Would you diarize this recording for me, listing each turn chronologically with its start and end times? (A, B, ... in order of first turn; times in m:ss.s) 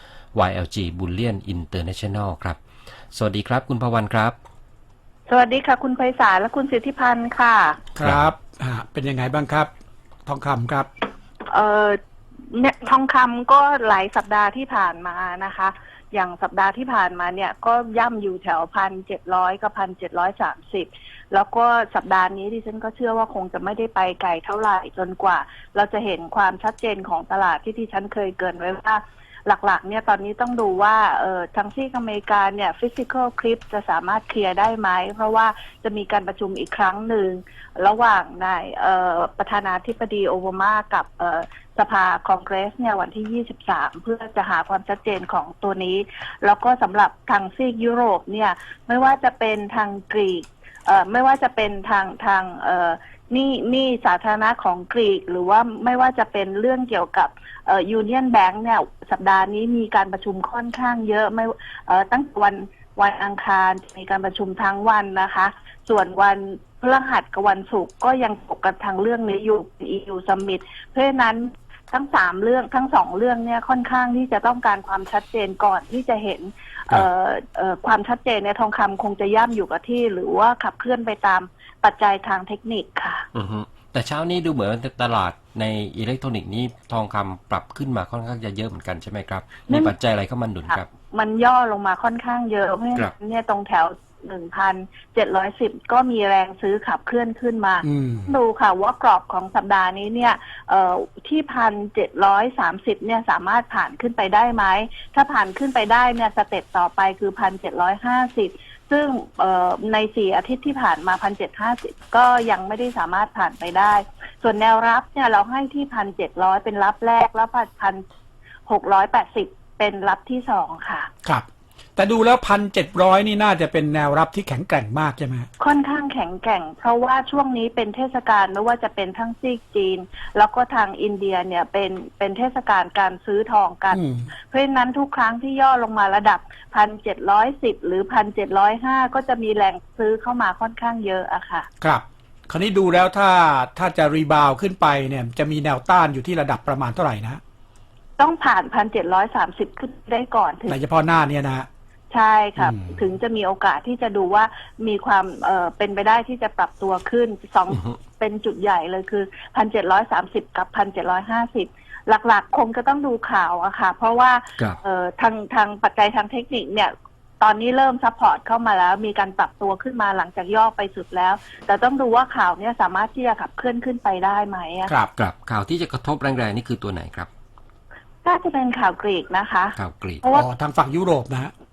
0:00.3-0:02.6 A
0:03.1-0:04.4 A
0:05.3-0:07.8 B
0:08.0-0:09.7 C
0:08.0-0:08.3 A
0:10.3-0:10.9 C
0:11.5-0:12.0 B
0:12.5-1:23.3 B
1:23.3-1:30.9 A
1:30.7-1:58.0 B
1:37.8-1:38.3 C
1:58.7-2:01.1 B
2:01.2-2:05.5 C
2:05.6-2:21.7 B
2:13.9-2:14.3 C
2:21.8-2:27.4 C
2:28.2-2:30.8 B
2:30.7-2:31.7 C
2:32.1-2:54.9 B
2:32.6-2:33.0 C
2:55.2-2:57.3 A
2:58.2-3:00.5 B
2:59.8-3:00.2 A
3:00.3-3:01.5 C